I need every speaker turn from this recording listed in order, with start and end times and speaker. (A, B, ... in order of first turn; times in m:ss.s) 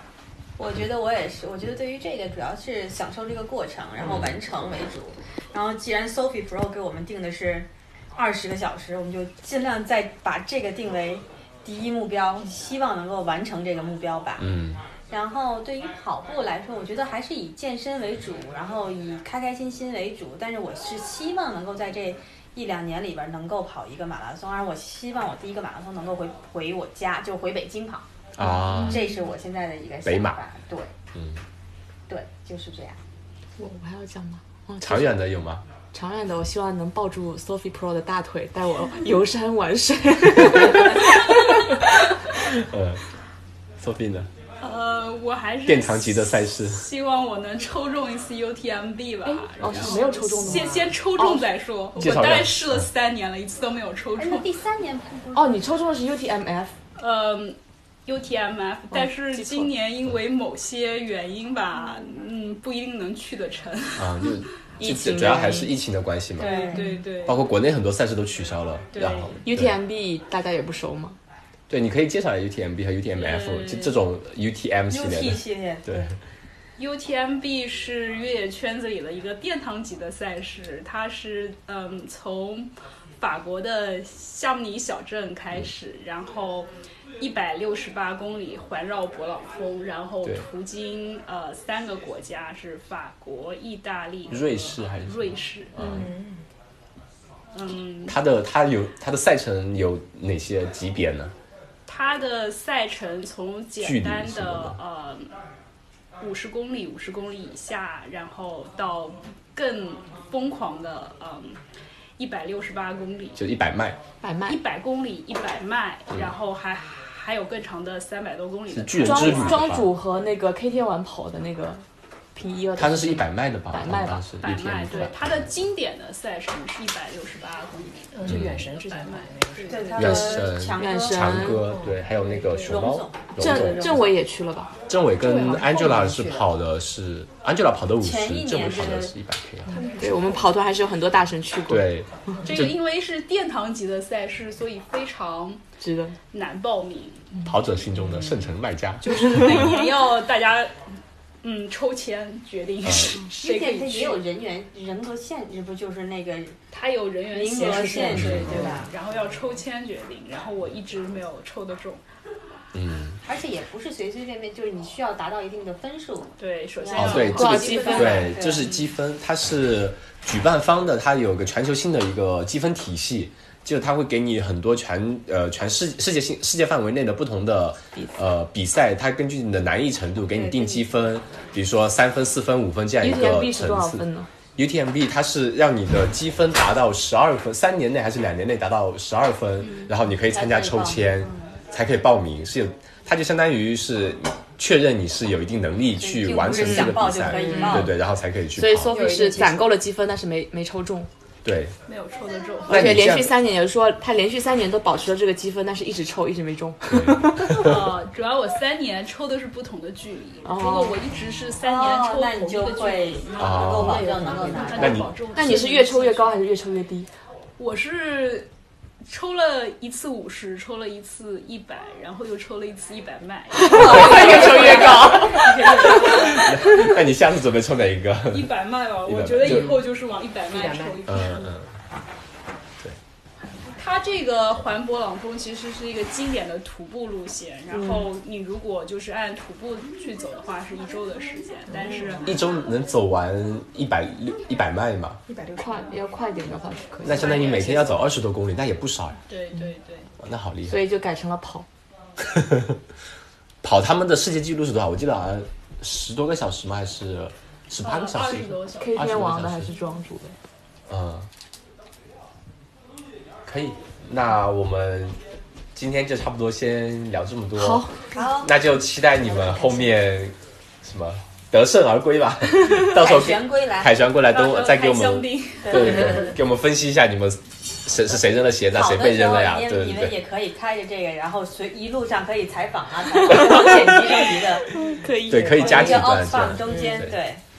0:00.6-0:14.5 A
0:04.0-0:04.4 B
0:14.4-0:14.8 B
0:15.1-0:28.1 A
0:28.4-0:29.1 B
0:28.4-0:29.0 C
0:28.8-0:31.0 A
0:30.0-0:30.4 B
0:31.2-0:31.4 B
0:32.1-0:33.0 A
0:33.6-0:35.2 C
0:34.8-0:35.6 B
0:35.9-0:41.8 C
0:40.7-0:41.5 D
0:42.4-0:43.0 B
0:43.8-0:44.3 B
0:44.6-0:54.5 D
0:45.7-0:46.8 B
0:49.2-0:51.5 C
0:49.6-0:50.0 B
0:52.0-0:52.9 B
0:54.2-0:55.6 A
0:55.3-0:56.7 C
0:57.0-1:04.4 D
0:58.9-0:59.7 C
1:04.0-1:06.7 B
1:04.8-1:05.7 C
1:06.4-1:06.9 A
1:06.4-1:07.5 D
1:07.2-1:09.8 B
1:08.9-1:09.4 D
1:09.0-1:09.2 A
1:09.4-1:11.2 C
1:11.7-1:16.1 B
1:13.2-1:14.0 D
1:14.9-1:15.9 A
1:16.8-1:36.1 D
1:34.3-1:36.1 B
1:36.0-1:36.4 E
1:37.5-1:38.2 D
1:38.1-1:41.3 B
1:41.9-1:45.3 D
1:43.8-1:44.8 B
1:46.2-1:51.6 D
1:52.2-1:53.4 D
1:53.4-1:54.0 B
1:54.2-1:54.6 C
1:54.4-1:59.9 D
1:58.7-1:59.9 B
1:59.0-2:01.8 C
2:02.4-2:04.2 C
2:02.8-2:05.4 B
2:04.4-2:10.2 D
2:08.1-2:10.0 E
2:08.3-2:08.6 B
2:09.7-2:11.6 A
2:10.0-2:11.6 C
2:10.0-2:14.1 B
2:12.2-2:12.6 D
2:12.3-2:14.1 A
2:13.4-2:14.7 C
2:14.9-2:19.8 B
2:15.2-2:16.5 E
2:18.0-2:19.1 A
2:19.7-2:20.6 E
2:19.8-2:21.9 C
2:21.7-2:22.8 B
2:22.4-2:25.6 D
2:25.8-2:26.2 C
2:26.3-2:27.4 D
2:27.4-2:29.4 B
2:29.0-2:30.9 D
2:29.3-2:29.6 C
2:31.4-2:34.2 D
2:32.8-2:33.2 B
2:33.3-2:36.6 A
2:36.7-2:42.0 D
2:37.3-2:38.9 A
2:38.2-2:38.7 B
2:42.7-2:43.2 B
2:43.2-2:48.7 A
2:46.4-2:48.9 D
2:47.0-3:04.0 B
2:47.0-2:48.3 C
3:00.3-3:00.9 A
3:03.0-3:04.3 C
3:04.6-3:19.0 B
3:09.7-3:09.9 D
3:10.3-3:11.6 A
3:15.9-3:17.9 A
3:16.5-3:17.0 C
3:18.6-3:21.1 C
3:18.9-3:19.8 E
3:21.4-3:21.8 B
3:21.9-3:23.0 D
3:22.7-3:23.3 B
3:22.7-3:27.8 C
3:26.9-3:27.8 B
3:27.5-3:36.5 D
3:30.4-3:31.0 C
3:31.6-3:35.1 A
3:33.4-3:35.1 B
3:35.4-3:37.1 C
3:37.6-3:38.5 D
3:39.0-3:46.6 D
3:43.6-3:46.2 C
3:43.7-3:46.5 A
3:46.1-3:49.8 B
3:48.3-3:51.6 D
3:49.4-3:49.8 E
3:50.5-3:51.1 E
3:51.1-3:51.7 B
3:53.8-4:02.4 D
4:02.2-4:05.2 B
4:05.3-4:06.0 E
4:05.6-4:07.8 C
4:07.0-4:09.2 B
4:07.1-4:08.1 D
4:09.3-4:10.1 D
4:10.2-4:10.8 B
4:10.7-4:11.7 C
4:12.2-4:12.8 B
4:13.6-4:19.7 B
4:17.8-4:19.8 D
4:18.8-4:20.4 C
4:20.9-4:21.3 B
4:23.4-4:25.2 B
4:25.8-4:40.2 B
4:27.6-4:28.0 C
4:28.1-4:30.1 A
4:32.8-4:34.1 A
4:34.2-4:36.3 D
4:35.6-4:36.4 A
4:38.7-4:44.9 A
4:43.6-4:43.8 C
4:44.7-4:46.1 C
4:45.3-4:47.1 B
4:45.4-4:47.4 A
4:46.6-4:47.0 E